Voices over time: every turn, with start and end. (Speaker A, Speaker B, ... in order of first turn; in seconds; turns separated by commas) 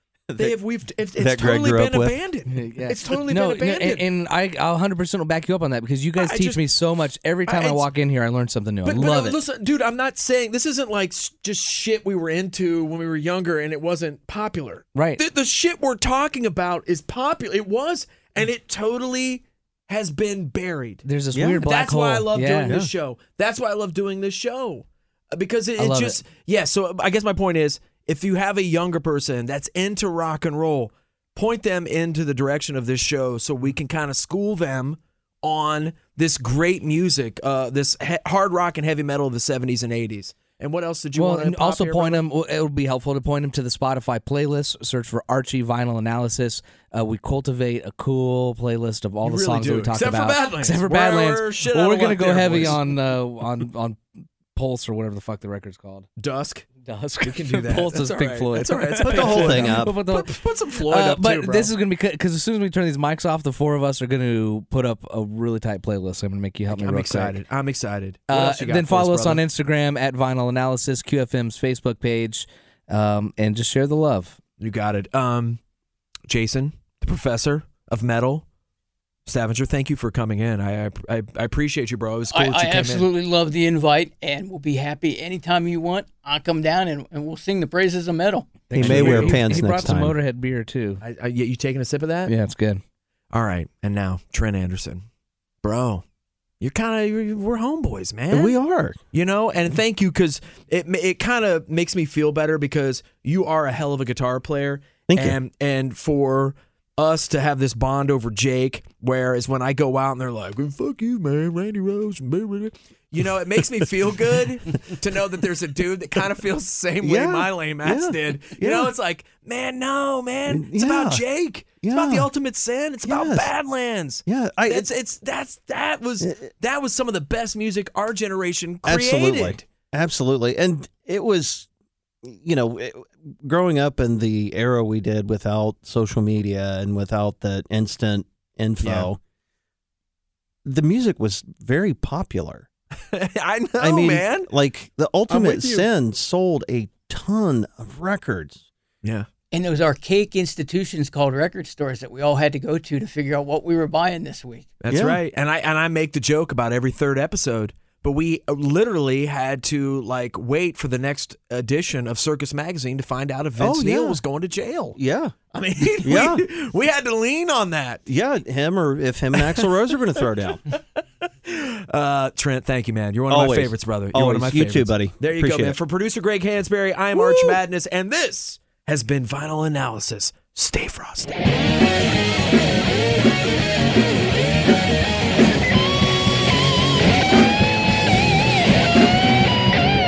Speaker A: 0.3-0.6, Speaker B: 0.4-4.1, Speaker A: 1.2-2.2, Speaker C: 2.5-9.3, Speaker B: 6.2-6.6, Speaker B: 7.5-7.9, Speaker B: 8.8-21.0, Speaker C: 15.0-15.2, Speaker C: 21.1-22.7, Speaker A: 21.3-21.7, Speaker B: 21.6-42.2, Speaker A: 22.6-22.9, Speaker C: 25.8-26.2, Speaker C: 41.2-56.1, Speaker B: 49.2-52.8, Speaker B: 56.2-56.7, Speaker C: 56.8-67.4, Speaker B: 57.2-61.7, Speaker A: 59.0-60.0, Speaker B: 66.7-69.4, Speaker C: 68.3-74.4, Speaker B: 74.6-75.6, Speaker B: 76.3-78.5, Speaker B: 79.3-83.1, Speaker D: 82.3-88.5, Speaker C: 88.7-91.0, Speaker B: 88.7-89.5, Speaker A: 88.7-90.2, Speaker B: 91.0-92.3, Speaker C: 92.3-92.8, Speaker B: 93.3-95.0, Speaker B: 95.6-96.0, Speaker B: 96.6-98.5, Speaker A: 98.3-99.0, Speaker B: 99.1-129.6, Speaker A: 105.1-105.4, Speaker A: 117.0-118.9, Speaker A: 120.5-121.2, Speaker A: 121.8-122.3, Speaker A: 123.1-123.5, Speaker A: 124.3-124.9, Speaker A: 126.2-126.5, Speaker A: 128.8-131.7, Speaker A: 132.2-139.2, Speaker B: 138.8-139.1, Speaker A: 140.7-142.7, Speaker B: 143.1-144.5, Speaker A: 143.8-148.6, Speaker B: 145.3-145.9, Speaker D: 149.5-154.7, Speaker B: 154.8-165.0, Speaker A: 154.9-155.2, Speaker A: 163.6-164.2, Speaker A: 165.0-165.3, Speaker B: 165.5-168.0, Speaker A: 166.0-166.5, Speaker A: 168.1-170.6, Speaker B: 169.3-169.7, Speaker B: 170.7-181.5, Speaker A: 173.3-175.8, Speaker A: 177.1-177.6